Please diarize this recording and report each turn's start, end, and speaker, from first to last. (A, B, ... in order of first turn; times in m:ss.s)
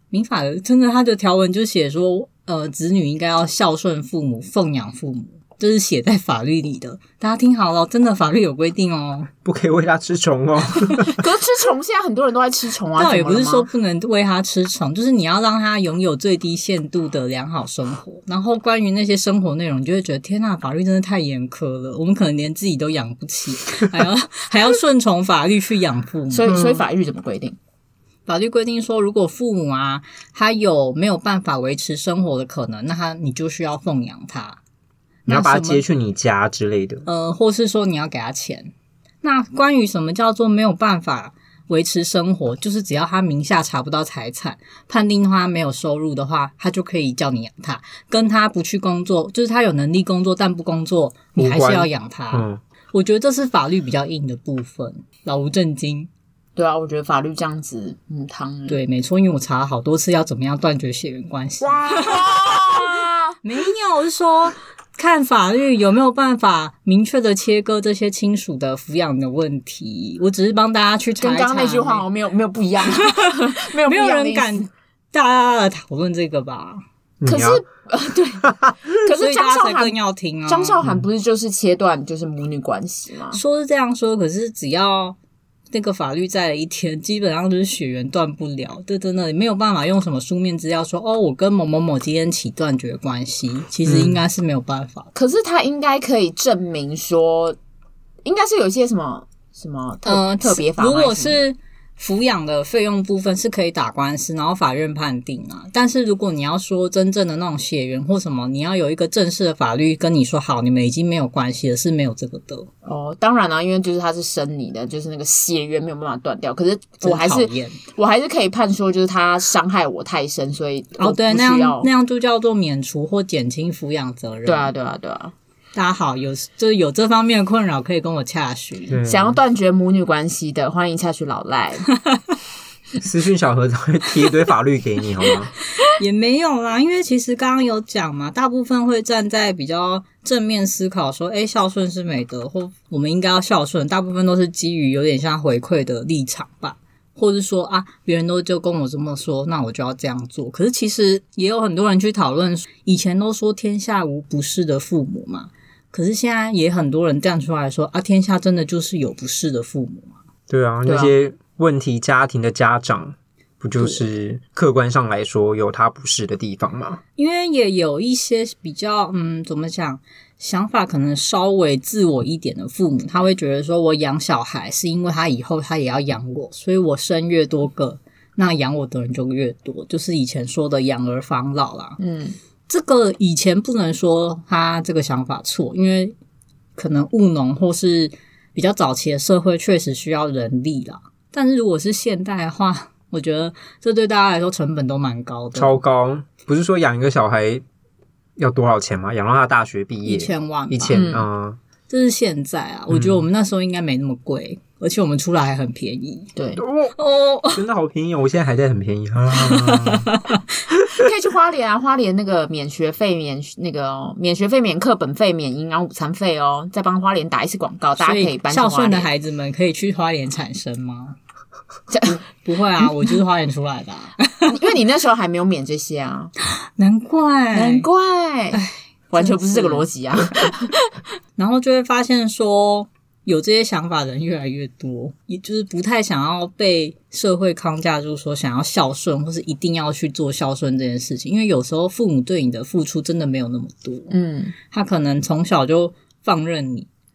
0:00.1-0:09.3 A
0:09.4-0:11.2 B
0:11.1-0:13.7 C
0:13.0-0:26.8 A
0:26.3-0:27.6 C
0:28.2-0:34.6 A
0:35.2-0:35.8 A
0:35.3-0:37.0 B
0:37.0-0:56.1 A
0:51.4-0:52.6 B
0:56.6-0:58.8 C
0:58.7-1:02.3 A
1:01.6-1:03.4 C
1:03.4-1:12.0 A
1:11.2-1:14.7 C
1:12.9-1:16.8 A
1:17.2-1:17.6 B
1:17.2-1:19.9 C
1:19.0-1:20.8 A
1:20.4-1:23.4 C
1:23.3-1:25.2 A
1:25.7-1:35.1 A
1:33.8-1:34.2 B
1:35.1-1:37.6 C
1:38.2-1:41.4 C
1:40.0-1:52.7 A
1:52.8-2:01.9 C
1:57.0-1:57.8 A
2:01.0-2:04.7 A
2:04.4-2:05.3 C
2:05.7-2:09.0 A
2:08.9-2:09.4 B
2:09.0-2:11.9 C
2:13.0-2:15.5 B
2:15.9-2:40.2 A
2:40.5-2:47.0 B
2:40.8-2:41.1 C
2:47.2-3:02.0 A
3:02.0-3:02.4 C
3:02.7-3:06.1 A
3:06.8-3:15.8 A
3:15.5-3:17.6 B
3:18.4-3:21.6 B
3:20.0-3:21.0 A
3:20.9-3:21.3 C
3:21.9-3:26.3 A
3:22.9-3:23.2 B
3:26.4-3:26.6 C
3:26.6-3:27.0 B
3:27.0-3:27.6 A
3:27.5-3:30.1 B
3:29.3-3:30.4 A
3:30.9-3:39.1 C
3:38.0-3:41.2 A
3:41.9-3:42.2 C
3:42.0-3:44.5 A
3:44.5-3:46.3 C
3:46.8-3:47.9 A
3:47.5-3:50.8 C
3:48.5-3:49.9 A
3:51.4-4:04.1 A
4:04.1-4:04.5 C
4:04.7-4:06.9 A